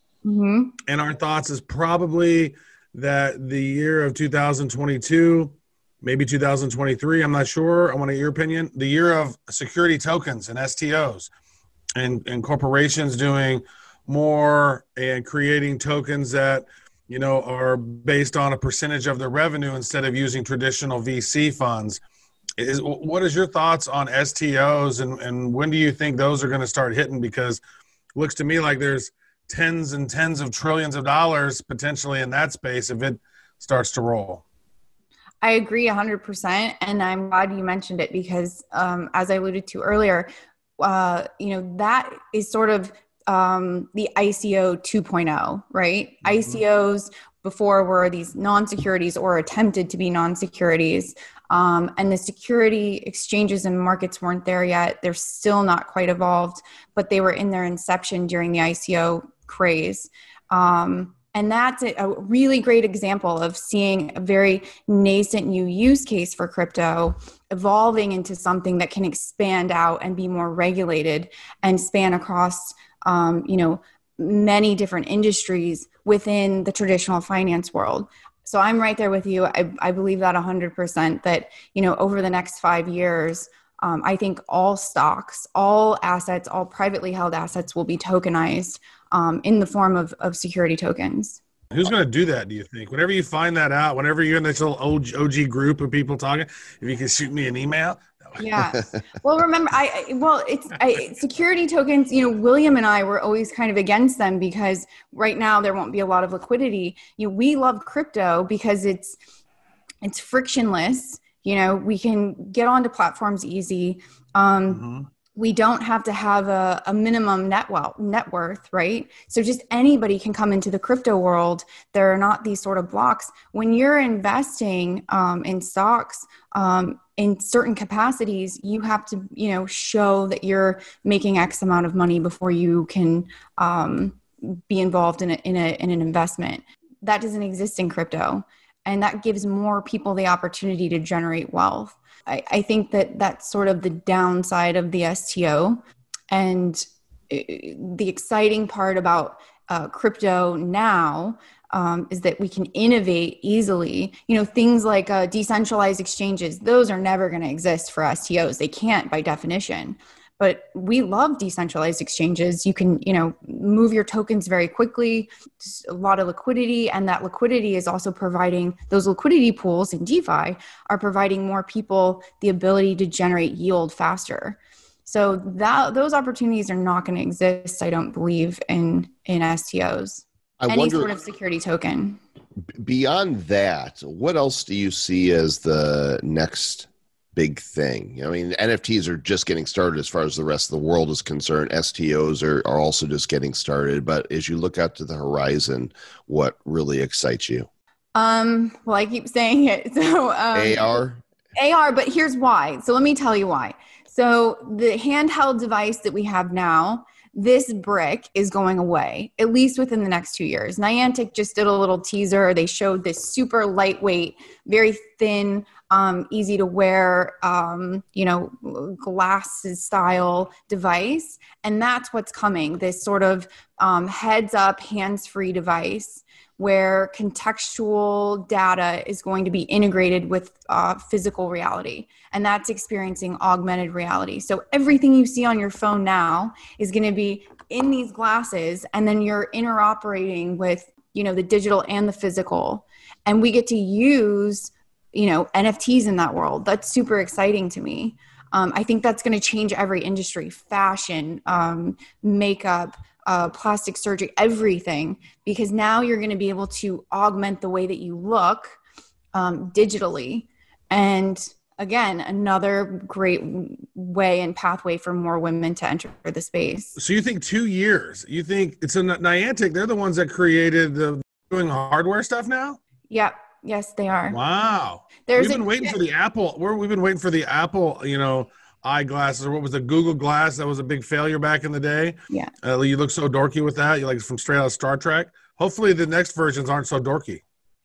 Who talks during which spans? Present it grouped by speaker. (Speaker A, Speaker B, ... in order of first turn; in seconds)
Speaker A: 0.2-0.8, 35.4-91.4, 98.4-109.2, 110.0-114.8, 115.3-182.2, 198.1-201.0, 201.5-258.8, 259.3-267.0, 273.1-274.4, 275.3-275.9
Speaker B: 0.8-11.3, 11.9-22.0, 22.6-27.6, 28.1-34.4, 46.2-46.6, 91.7-98.4, 114.7-115.1, 267.0-272.8, 274.3-287.4
Speaker C: 180.6-181.1, 182.8-197.7, 200.5-201.2